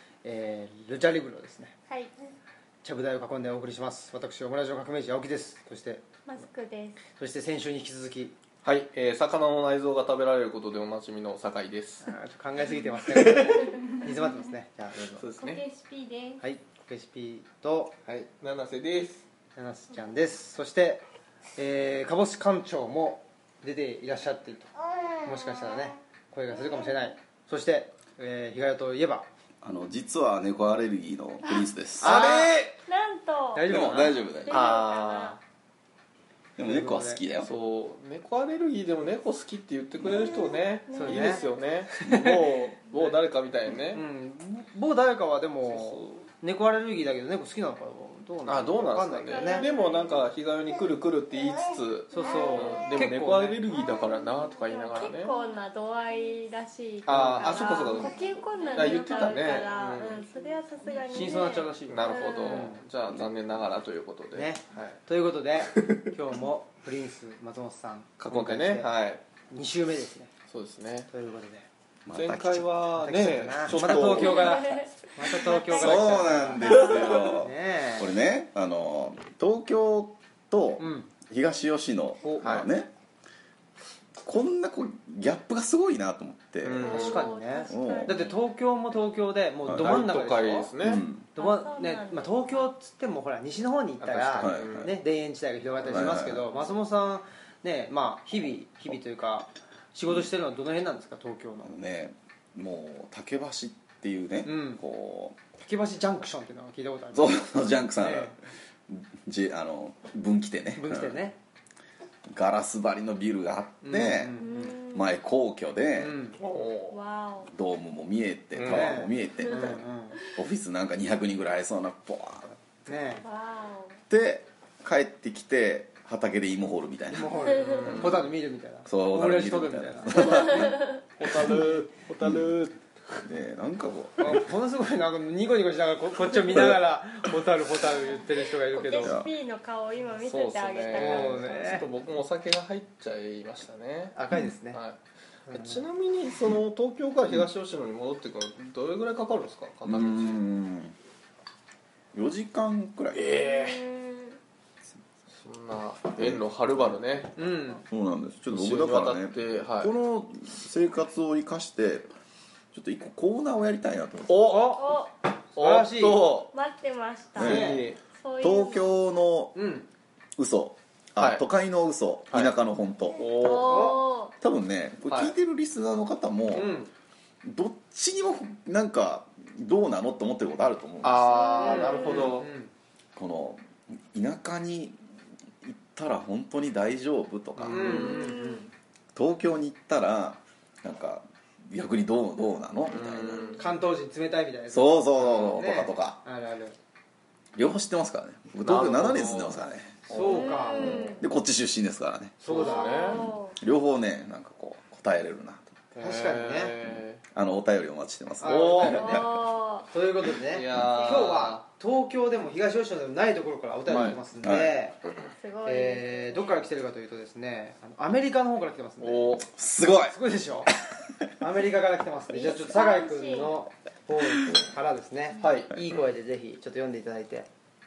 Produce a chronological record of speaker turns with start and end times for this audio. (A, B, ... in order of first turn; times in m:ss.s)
0:00.2-0:01.7 A
0:02.8-0:06.0 A
0:06.2-0:07.0 B
0:07.2-0:08.3 A
0:08.6-0:12.1 C
0:12.0-0:15.3 A
0:15.2-0:15.6 C
0:15.4-0:16.4 B
0:16.4-0:18.0 A
0:18.0-0:19.2 C
0:19.6-0:21.0 A
0:21.6-0:24.7 A
0:25.2-0:29.3 A
0:29.6-0:32.4 D
0:32.0-0:32.6 A
0:32.0-0:32.7 C
0:32.2-0:35.4 B
0:33.5-0:34.2 A
0:33.6-0:34.8 D
0:34.5-0:35.4 C
0:36.6-0:37.5 D
0:36.6-0:37.2 A
0:37.4-0:44.0 C
0:40.1-0:41.6 B
0:40.9-0:41.4 A
0:42.0-0:42.5 A
0:43.9-0:49.7 A
0:45.7-0:46.0 C
0:48.4-0:55.3 C
0:49.3-0:50.2 B
0:52.1-0:53.6 A
0:54.5-1:02.7 B
0:57.0-0:58.2 C
0:57.1-0:57.9 A
0:58.7-1:00.2 C
1:01.1-1:02.8 A
1:01.1-1:05.0 C
1:04.3-1:08.9 A
1:05.7-1:06.1 C
1:08.2-1:09.2 C
1:09.5-1:10.3 A
1:10.5-1:11.1 C
1:11.1-1:11.7 A
1:12.0-1:12.6 D
1:12.1-1:14.6 C
1:13.0-1:18.1 A
1:13.7-1:14.4 D
1:14.2-1:17.3 B
1:15.6-1:22.9 D
1:20.8-1:21.1 A
1:22.2-1:22.5 A
1:22.4-1:22.7 C
1:24.2-1:26.9 D
1:26.6-1:27.3 C
1:26.8-1:30.7 A
1:26.8-1:28.4 B
1:27.7-1:28.1 D
1:29.6-1:30.0 D
1:29.8-1:31.0 C
1:30.8-1:31.2 D
1:31.3-1:41.7 A
1:31.4-1:32.7 B
1:34.0-1:34.9 C
1:34.3-1:34.9 D
1:35.8-1:36.5 D
1:41.6-1:45.4 D
1:44.4-1:44.8 A
1:45.5-1:48.4 A
1:47.1-1:48.4 D
1:48.9-1:51.2 D
1:50.8-1:51.4 A
1:52.3-1:56.2 D
1:53.8-1:54.8 A
1:54.4-1:55.1 B
1:56.0-1:56.4 A
1:56.4-1:57.0 C
1:56.9-1:57.5 B
1:57.5-2:02.6 D
1:58.5-1:59.0 C
1:58.6-2:00.2 A
1:59.4-1:59.7 B
2:02.9-2:03.2 A
2:03.2-2:04.0 B
2:04.1-2:08.2 D
2:07.1-2:10.3 A
2:07.4-2:08.0 B
2:07.5-2:08.2 C
2:08.8-2:10.8 D
2:10.1-2:12.8 C
2:10.3-2:11.0 B
2:12.2-2:12.5 D
2:13.1-2:14.5 D
2:14.2-2:19.2 A
2:18.6-2:21.8 B
2:19.0-2:19.3 D
2:20.2-2:24.2 C
2:20.9-2:21.9 A
2:24.1-2:24.8 A
2:24.7-2:25.0 C
2:25.5-2:25.8 A
2:25.5-2:30.4 C
2:29.8-2:30.9 D
2:32.1-2:33.4 D
2:33.1-2:33.8 C
2:33.4-2:34.4 B
2:35.4-2:37.4 C
2:37.4-2:37.8 A
2:37.9-2:42.1 D
2:38.5-2:39.9 C
2:42.7-2:44.7 D
2:44.3-2:44.7 C
2:44.4-2:45.0 A
2:44.7-2:45.1 B
2:45.5-2:46.3 A
2:45.5-2:46.5 C
2:46.5-2:48.9 B
2:47.4-2:47.8 D
2:47.4-2:48.0 C
2:47.4-2:47.9 A
2:48.4-2:49.6 D
2:49.5-2:49.9 A
2:50.4-2:53.9 D
2:51.2-2:51.4 C
2:53.2-2:54.1 C
2:53.2-2:54.3 B
2:53.5-2:54.0 A
2:54.4-2:56.8 D
2:56.5-2:56.9 A
2:57.4-3:01.7 D
3:01.0-3:02.5 C
3:01.2-3:02.4 B
3:01.7-3:02.7 A
3:03.1-3:05.0 D
3:05.6-3:08.2 D
3:07.6-3:08.4 C
3:07.7-3:08.7 A
3:07.9-3:08.7 B
3:09.1-3:13.5 D
3:12.9-3:13.6 C
3:13.3-3:13.6 B
3:13.6-3:16.8 A
3:14.7-3:16.2 D
3:17.5-3:22.4 D
3:18.6-3:21.1 C
3:20.1-3:21.2 A
3:20.2-3:21.2 B
3:22.4-3:23.3 C
3:22.4-3:23.2 A
3:22.5-3:23.6 B
3:23.6-3:25.8 D
3:25.9-3:27.2 C
3:26.0-3:26.8 A
3:27.3-3:29.3 D
3:28.4-3:35.0 A
3:28.5-3:29.3 C
3:28.8-3:29.9 B
3:30.4-3:31.6 C
3:30.9-3:31.3 B
3:33.9-3:34.2 C
3:34.4-3:34.8 D
3:35.4-3:36.7 B
3:35.6-3:39.4 A
3:39.0-3:39.5 C
3:39.4-3:41.2 D
3:40.0-3:40.7 A
3:41.4-3:47.5 A
3:42.3-3:43.6 B
3:45.4-3:45.7 C